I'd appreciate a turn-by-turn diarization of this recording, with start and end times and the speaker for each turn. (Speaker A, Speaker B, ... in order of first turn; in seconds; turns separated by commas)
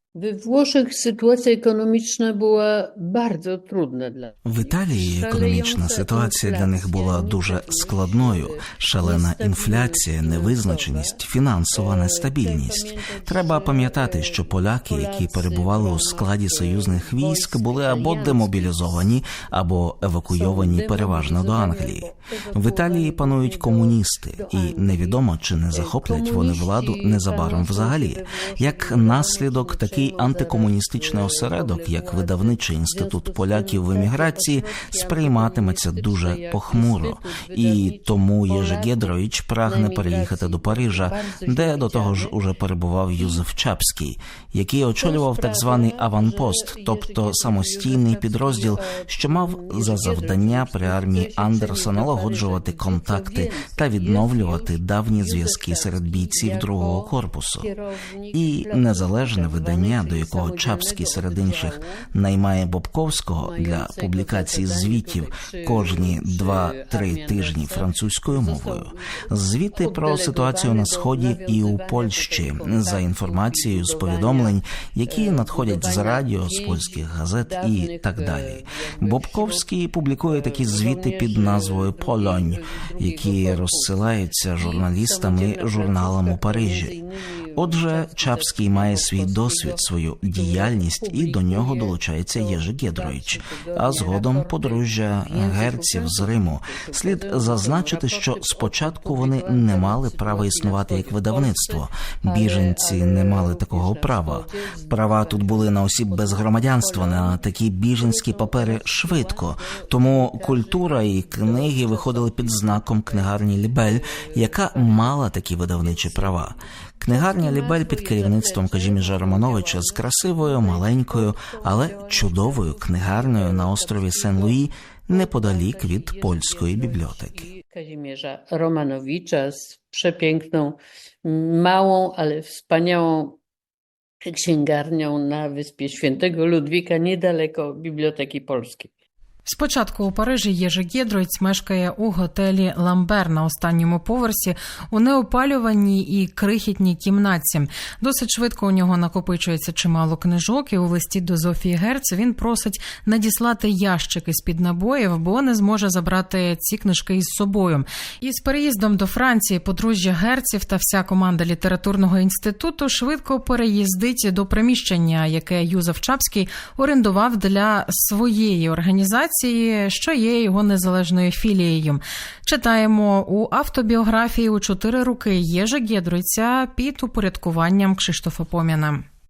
Speaker A: 0.1-11.2, Speaker B: 4.5-57.7, Speaker A: 11.7-19.2, Speaker A: 20.2-42.4, Speaker A: 43.2-43.4, Speaker A: 45.0-62.1, Speaker B: 58.3-87.0, Speaker A: 63.3-133.4, Speaker B: 87.5-127.4, Speaker A: 134.2-138.9, Speaker C: 139.5-179.0